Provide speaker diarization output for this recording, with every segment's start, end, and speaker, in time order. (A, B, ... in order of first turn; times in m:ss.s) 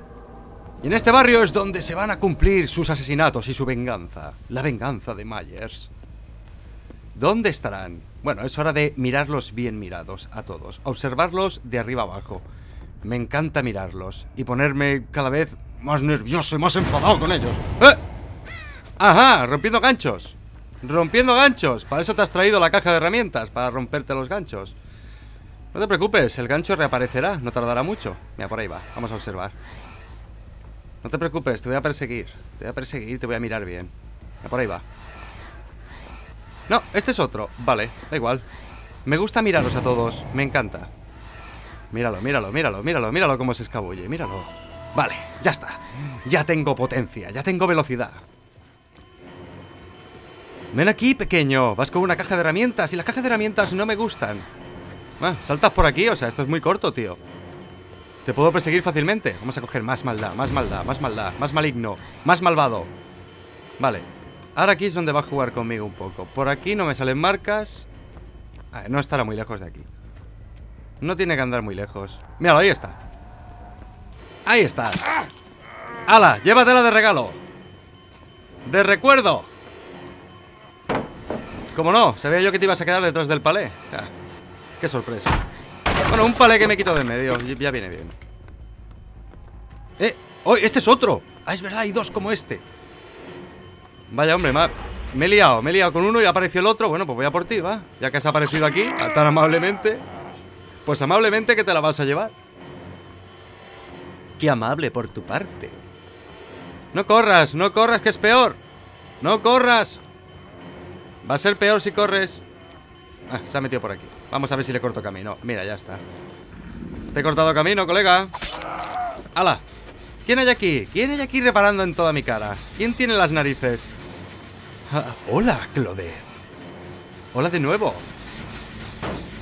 0:00.8-0:05.9 A
0:07.1-0:12.4 A
0:13.0-0:18.0 A
0:19.0-0:24.8 A
0:25.7-0:29.6 A
0:31.0-0:34.8 A
0:36.7-0:38.4 A
0:39.0-0:40.9 A
0:41.9-0:48.2 A
0:50.7-0:54.5 A
0:55.2-0:57.2 A
0:58.2-1:02.9 A
1:03.8-1:07.9 A
1:08.7-1:09.9 A
1:11.0-1:13.0 A
1:14.5-1:15.2 A
1:16.1-1:17.4 A
1:18.6-1:19.5 A
1:21.7-1:24.1 A
1:24.8-1:25.4 A
1:26.1-1:28.2 A
1:30.0-1:32.6 A
1:34.1-1:40.0 A
1:40.8-1:42.4 A
1:44.4-1:45.8 A
1:46.9-1:48.6 A
1:49.2-1:50.0 A
1:51.2-1:52.4 A
1:53.3-1:56.0 A
1:57.1-1:58.3 A
1:59.4-1:59.6 A
2:00.2-2:03.9 A
2:04.9-2:06.3 A
2:07.3-2:08.1 A